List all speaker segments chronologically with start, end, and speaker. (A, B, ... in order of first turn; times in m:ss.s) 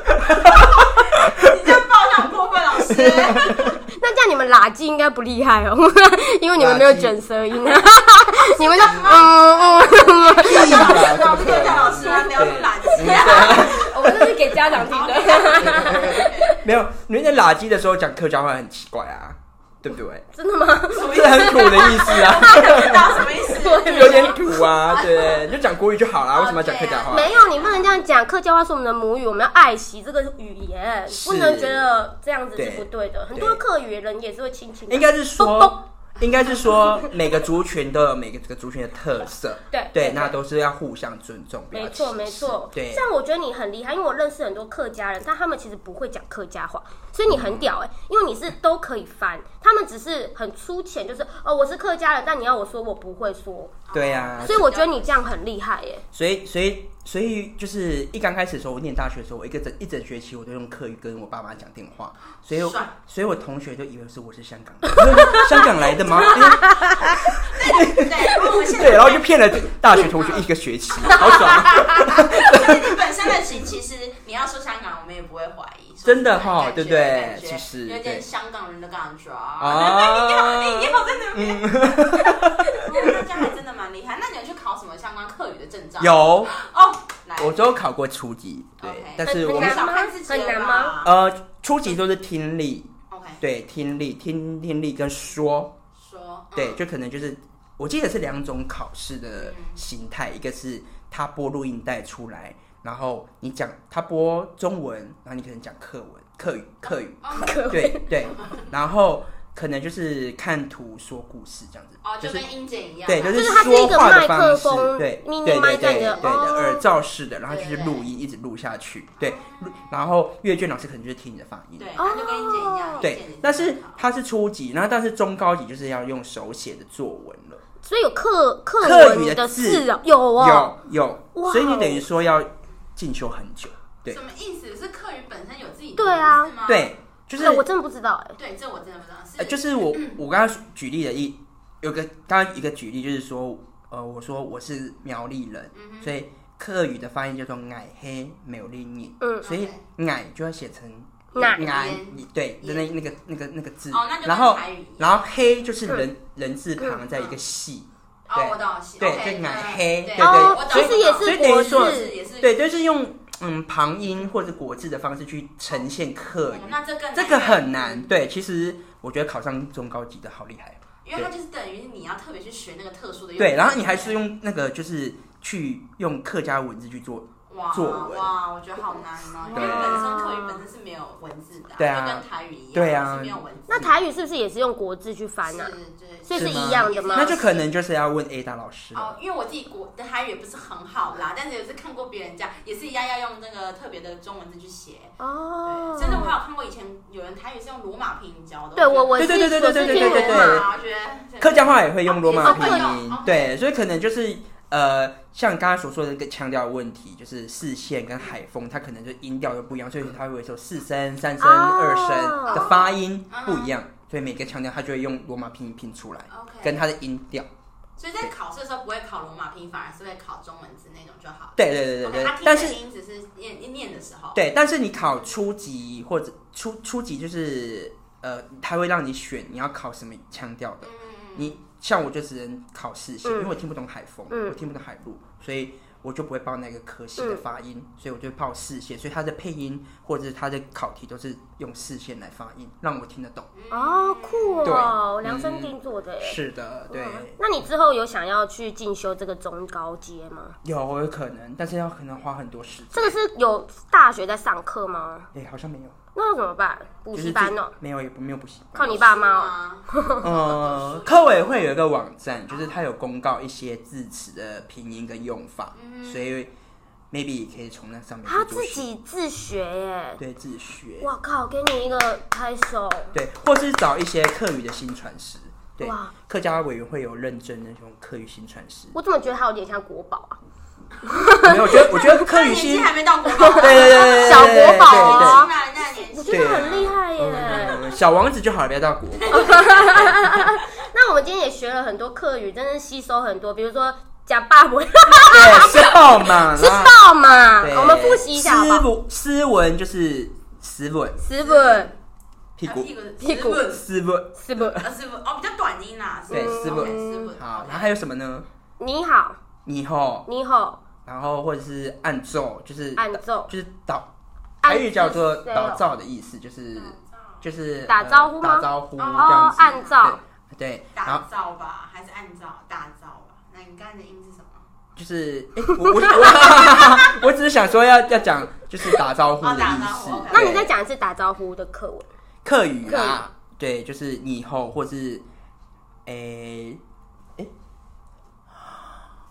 0:00.4-0:03.7 A
0:02.9-0:03.7 B
0:04.0-0:12.3 C
0:06.6-0:07.2 B
0:08.5-0:16.5 A
0:10.4-0:14.1 B
0:13.0-0:16.6 C
0:15.6-0:20.2 B
0:20.3-0:25.0 C
0:20.9-0:25.4 A
0:21.0-0:27.3 B
0:26.3-0:27.9 A
0:27.1-0:35.8 C
0:31.1-0:31.9 B
0:32.5-0:33.6 B
0:34.9-0:43.0 B
0:36.2-0:36.8 A
0:39.7-0:40.4 C
0:41.7-0:53.8 C
0:47.3-0:47.7 B
0:53.9-0:55.3 A
0:53.9-0:54.6 B
0:54.4-0:56.0 C
0:56.1-1:13.0 B
1:02.5-1:02.9 A
1:04.9-1:05.4 C
1:06.3-1:07.1 C
1:07.4-1:09.3 A
1:09.9-1:21.7 A
1:16.0-1:18.2 B
1:19.6-1:23.2 B
1:22.6-1:27.6 A
1:26.0-1:26.6 B
1:27.4-1:29.8 B
1:28.8-1:31.1 A
1:29.2-1:31.0 C
1:31.0-1:32.9 B
1:33.1-1:33.4 A
1:33.4-1:35.7 B
1:36.0-1:36.8 A
1:36.5-1:52.4 B
1:39.3-1:39.8 A
1:46.8-1:47.6 A
1:47.3-1:48.1 C
1:52.0-1:53.5 A
1:53.0-2:01.9 B
1:53.3-1:56.8 C
1:55.8-1:56.5 A
1:57.4-1:58.1 A
1:59.2-1:59.9 A
2:01.8-2:04.0 A
2:02.0-2:03.0 C
2:03.0-2:07.6 B
2:07.8-2:10.7 C
2:08.8-2:14.2 B
2:11.3-2:12.0 C
2:14.1-2:16.9 A
2:16.0-2:16.5 C
2:16.6-2:17.6 B
2:17.3-2:18.3 C
2:18.4-2:20.2 A
2:19.4-2:51.3 B
2:25.7-2:26.1 A
2:29.2-2:29.4 C
2:29.4-2:29.8 A
2:31.3-2:31.6 C
2:31.3-2:32.9 A
2:33.9-2:35.2 A
2:37.1-2:37.4 A
2:38.3-2:42.5 A
2:40.2-2:42.1 C
2:46.5-2:48.1 A
2:51.0-2:54.2 A
2:53.4-2:58.3 B
2:57.5-3:03.9 A
2:59.5-3:00.6 C
2:59.5-3:00.1 B
3:01.8-3:03.9 B
3:03.7-3:05.7 C
3:05.4-3:07.6 A
3:06.3-3:07.4 C
3:06.3-3:09.1 B
3:08.9-3:23.5 A
3:15.2-3:16.3 C
3:18.8-3:20.6 C
3:19.2-3:20.7 B
3:21.4-3:37.5 B
3:22.3-3:23.0 C
3:31.4-3:32.7 C
3:32.5-3:33.7 A
3:36.3-3:36.9 A
3:38.0-3:44.4 A
3:41.6-3:42.8 B
3:44.3-4:03.5 B
3:50.8-3:51.6 A
3:53.2-3:53.6 C
3:54.3-3:54.6 C
3:57.2-3:57.4 C
4:03.5-4:05.0 A
4:03.7-4:06.4 C
4:04.6-4:07.4 B
4:06.9-4:10.6 C
4:10.6-4:13.2 B
4:12.9-4:15.3 C
4:15.3-4:15.9 B
4:16.1-4:17.7 C
4:17.1-4:19.0 B
4:18.7-4:20.2 C
4:18.8-4:21.7 A
4:20.2-4:26.5 B
4:22.5-4:22.8 A
4:25.7-4:26.3 A
4:27.1-4:28.9 B
4:28.2-4:30.2 C
4:30.2-4:31.1 B
4:31.0-4:33.1 C
4:33.1-4:39.0 B
4:35.8-4:36.1 C
4:38.9-4:40.4 C
4:41.1-4:42.2 C
4:41.4-4:42.9 B
4:42.2-4:47.8 A
4:43.4-4:45.5 C
4:43.5-4:45.4 B
4:46.1-4:47.8 C
4:46.2-4:50.3 B
4:49.2-4:50.0 A
4:49.3-4:58.9 C
4:55.3-4:57.0 B
4:57.6-5:01.2 B
5:01.2-5:01.9 C
5:01.4-5:01.9 A
5:02.6-5:02.9 B
5:02.6-5:03.8 A
5:03.2-5:03.6 C
5:03.6-5:04.6 B
5:04.4-5:04.8 C
5:04.6-5:08.0 A
5:06.3-5:07.3 C
5:06.3-5:08.4 B
5:08.8-5:09.4 C
5:09.6-5:10.3 B
5:10.3-5:10.8 C
5:11.0-5:14.1 B
5:13.0-5:13.5 C
5:14.6-5:15.9 C
5:14.6-5:21.2 B
5:16.7-5:17.0 A
5:17.9-5:20.2 C
5:19.0-5:20.1 A
5:20.9-5:24.6 A
5:25.0-5:30.7 B
5:25.9-5:27.3 A
5:29.4-5:30.7 A
5:30.3-5:32.1 C
5:32.4-5:35.2 B
5:32.8-5:33.2 C
5:36.0-5:36.8 B